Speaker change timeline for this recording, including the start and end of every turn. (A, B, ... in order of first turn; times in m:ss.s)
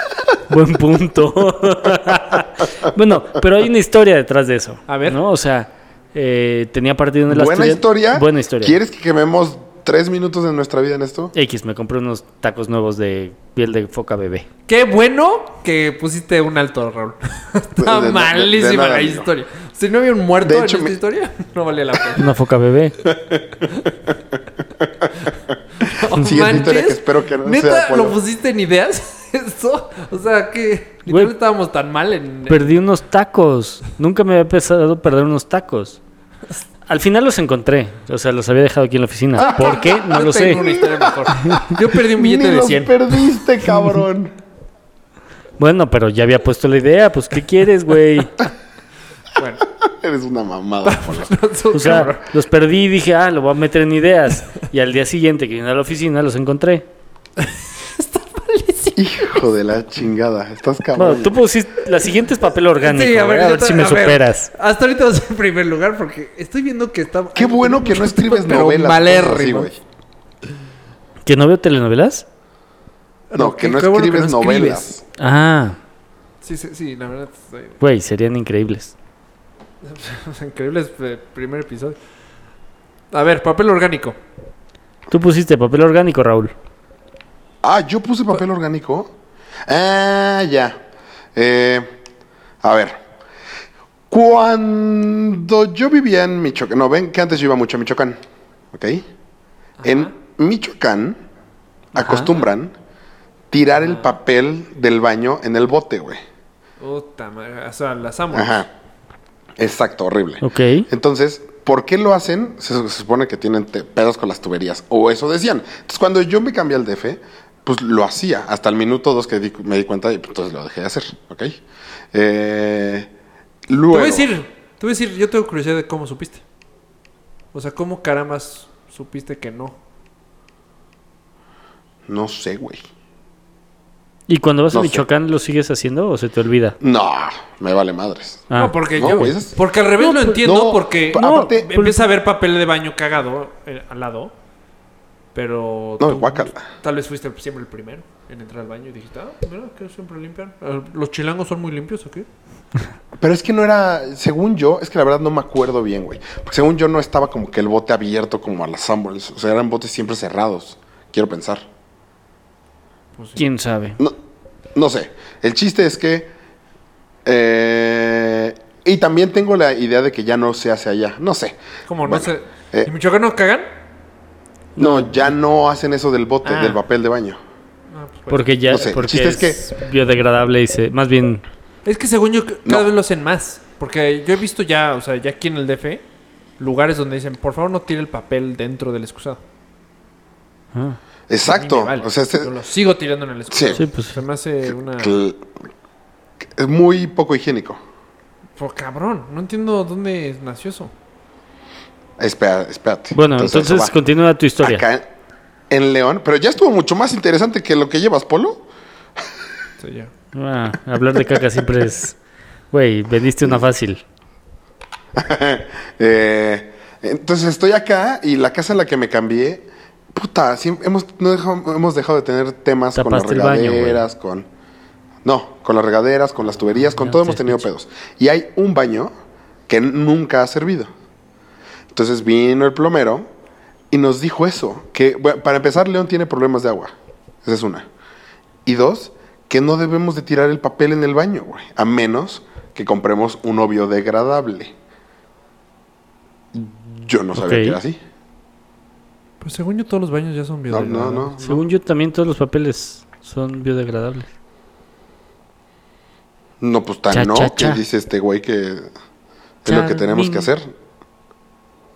0:00.5-0:08.8 A
0:04.9-0:05.2 B
0:07.3-0:11.3 C
0:11.3-0:14.5 A
0:14.7-0:22.3 B
0:17.8-0:19.3 C
0:20.4-0:21.0 C
0:22.2-0:23.0 A
0:23.0-0:24.1 C
0:24.8-0:25.1 C
0:25.8-0:32.8 B
0:25.8-0:28.2 C
0:32.5-0:36.0 A
0:36.9-0:40.6 A
0:39.4-0:43.4 B
0:40.6-0:44.3 C
0:45.6-0:48.5 A
0:49.4-0:49.6 B
0:49.8-0:51.3 C
0:50.8-0:52.2 B
0:51.7-0:56.9 A
0:57.4-0:59.5 B
0:59.0-1:01.4 C
1:01.0-1:04.5 A
1:02.8-1:09.7 B
1:07.4-1:09.8 C
1:11.2-1:12.3 A
1:13.3-1:14.9 B
1:13.4-1:15.0 C
1:15.2-1:15.8 A
1:16.4-1:17.8 B
1:17.8-1:18.9 A
1:19.8-1:22.0 B
1:23.1-1:24.2 B
1:25.1-1:26.5 A
1:27.6-1:29.1 C
1:29.7-1:30.8 C
1:31.4-1:31.9 C
1:32.6-1:33.0 C
1:34.1-1:38.2 C
1:38.7-1:39.1 C
1:39.8-1:40.1 B
1:39.8-1:41.2 C
1:42.0-1:42.8 C
1:42.0-1:42.3 A
1:43.5-1:46.2 C
1:46.8-1:48.7 B
1:48.3-1:48.7 C
1:49.6-2:01.6 C
1:50.4-1:50.9 A
2:02.1-2:03.1 C
2:03.7-2:04.3 C
2:03.9-2:06.4 B
2:07.5-2:09.8 B
2:12.1-2:12.8 C
2:14.3-2:16.8 A
2:14.7-2:15.1 C
2:16.8-2:19.6 C
2:18.5-2:19.4 A
2:18.6-2:24.3 B
2:20.0-2:20.4 A
2:20.4-2:21.7 C
2:21.1-2:22.0 A
2:25.4-2:32.3 B
2:26.0-2:26.6 C
2:33.2-2:41.6 C
2:43.2-2:43.4 B
2:43.4-2:44.0 A
2:44.8-2:46.3 C
2:47.2-2:52.9 C
2:51.9-2:53.7 B
2:54.8-2:55.1 A
2:54.8-2:57.4 C
2:56.4-2:56.8 B
2:57.9-2:58.5 B
2:58.3-3:01.4 A
2:58.7-2:59.6 C
3:01.8-3:06.0 B
3:06.6-3:09.4 B
3:10.7-3:11.0 A
3:11.3-3:12.5 C
3:11.5-3:15.2 B
3:13.5-3:13.8 C
3:13.8-3:14.2 A
3:15.0-3:15.6 C
3:16.4-3:17.8 C
3:18.6-3:20.9 B
3:22.2-3:24.0 C
3:23.1-3:24.8 A
3:24.6-3:25.1 C
3:25.7-3:28.7 C
3:29.8-3:30.1 B
3:30.4-3:32.2 A
3:32.7-3:34.0 A
3:35.2-3:44.5 C
3:43.0-3:44.0 A
3:45.2-3:49.1 C
3:46.9-3:47.7 A
3:49.7-3:50.9 C
3:51.9-3:53.3 C
3:53.9-3:56.9 C
3:57.4-3:57.9 C
3:58.7-4:04.7 C
4:06.5-4:08.0 C
4:07.4-4:07.8 A
4:09.4-4:11.4 B
4:10.7-4:11.6 C
4:11.4-4:14.3 A
4:16.6-4:18.9 C
4:17.1-4:17.8 A
4:19.6-4:20.7 C
4:19.7-4:20.5 A